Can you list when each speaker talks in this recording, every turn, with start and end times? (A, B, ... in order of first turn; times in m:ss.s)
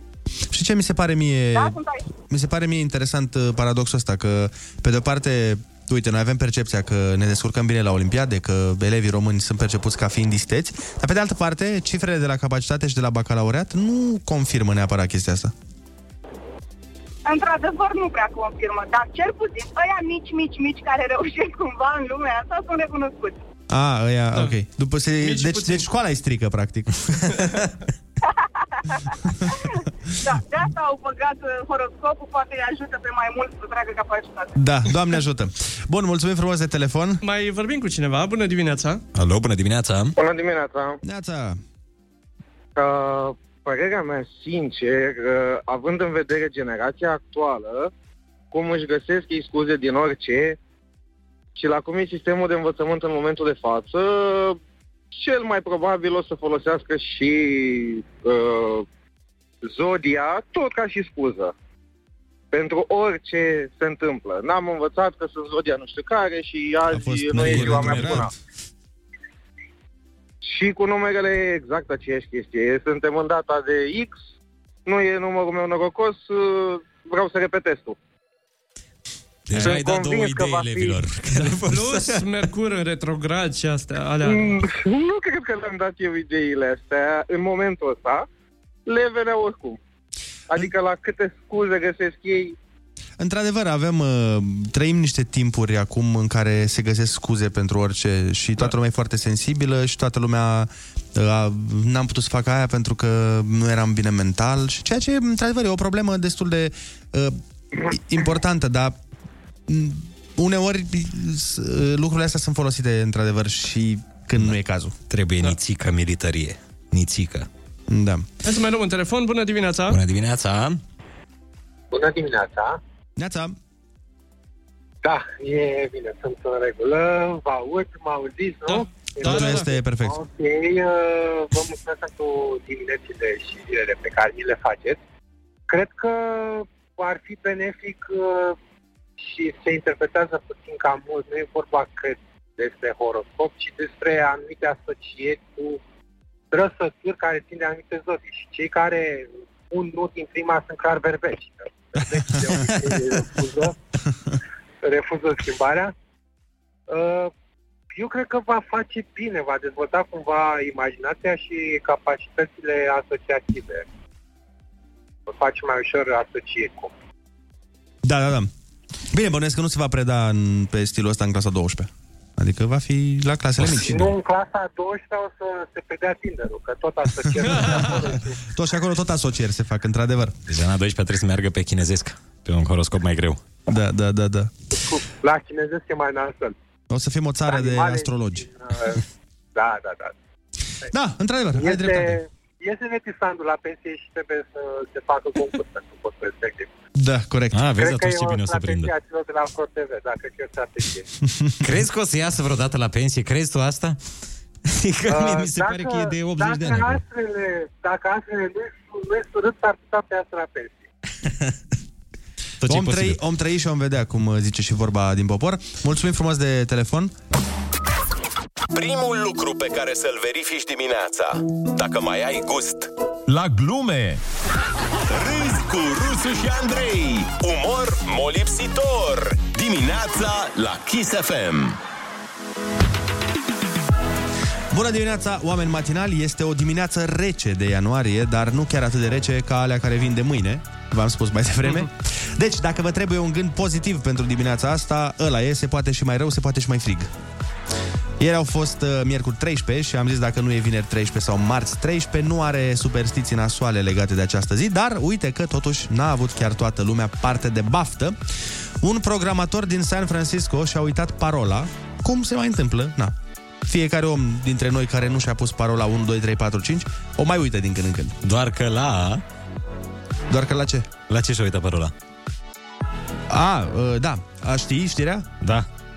0:00.5-0:15.5 A
0:01.6-0:02.1 B
0:17.2-0:23.4 B
0:23.7-0:27.4 A
0:25.2-0:25.8 C
0:28.2-0:29.0 B
0:30.2-0:34.6 B
0:34.6-0:37.2 A
0:37.2-0:39.0 C
0:39.2-0:40.2 D
0:40.2-0:41.0 E
0:41.0-0:41.6 A
0:42.8-0:47.9 E
0:48.5-0:50.6 E
0:51.6-0:54.6 E
0:55.1-0:58.9 E
0:59.6-1:01.5 E
1:02.5-1:08.3 E
1:06.9-1:08.3 A
1:07.4-1:08.3 D
1:10.4-1:14.2 E
1:14.9-1:18.0 E
1:19.5-1:22.3 D
1:19.6-1:21.0 E
1:21.4-1:24.5 C
1:24.2-1:28.3 E
1:28.9-1:29.8 E
1:30.5-1:32.6 E
1:33.2-1:49.0 A
1:49.7-1:54.9 A
1:55.1-1:57.5 D
1:57.9-1:58.3 A
1:58.4-2:00.0 C
1:59.9-2:00.8 D
2:01.9-2:02.8 F
2:03.2-2:03.6 A
2:05.0-2:15.0 F
2:08.7-2:09.7 C
2:09.2-2:10.2 A
2:15.7-2:18.6 F
2:19.2-2:25.8 F
2:26.5-2:33.8 F
2:34.8-2:35.9 F
2:36.9-2:37.3 F
2:37.9-2:43.8 F
2:45.3-2:46.9 F
2:48.0-2:48.5 A
2:49.1-2:54.1 A
2:53.7-2:58.4 F
2:57.4-2:58.0 C
2:58.5-3:00.4 A
3:00.5-3:03.4 D
3:03.7-3:04.5 A
3:04.7-3:06.6 F
3:06.9-3:08.5 A
3:07.5-3:09.0 F
3:09.6-3:10.2 F
3:10.9-3:12.2 A
3:11.6-3:16.7 F
3:17.0-3:17.6 A
3:17.5-3:18.9 D
3:17.8-3:21.1 F
3:21.2-3:21.7 A
3:21.6-3:24.0 D
3:24.7-3:27.0 D
3:25.1-3:30.8 F
3:32.6-3:33.2 D
3:32.7-3:37.1 A
3:38.7-3:42.9 G
3:43.3-3:44.2 H
3:45.1-3:51.8 G
3:45.3-3:46.5 H
3:54.7-4:07.1 A
4:08.2-4:18.2 A
4:18.8-4:23.1 A
4:23.7-4:28.1 A
4:28.2-4:29.2 D
4:30.3-4:30.9 A
4:31.1-4:31.9 D
4:33.3-4:35.3 A
4:35.4-4:35.7 D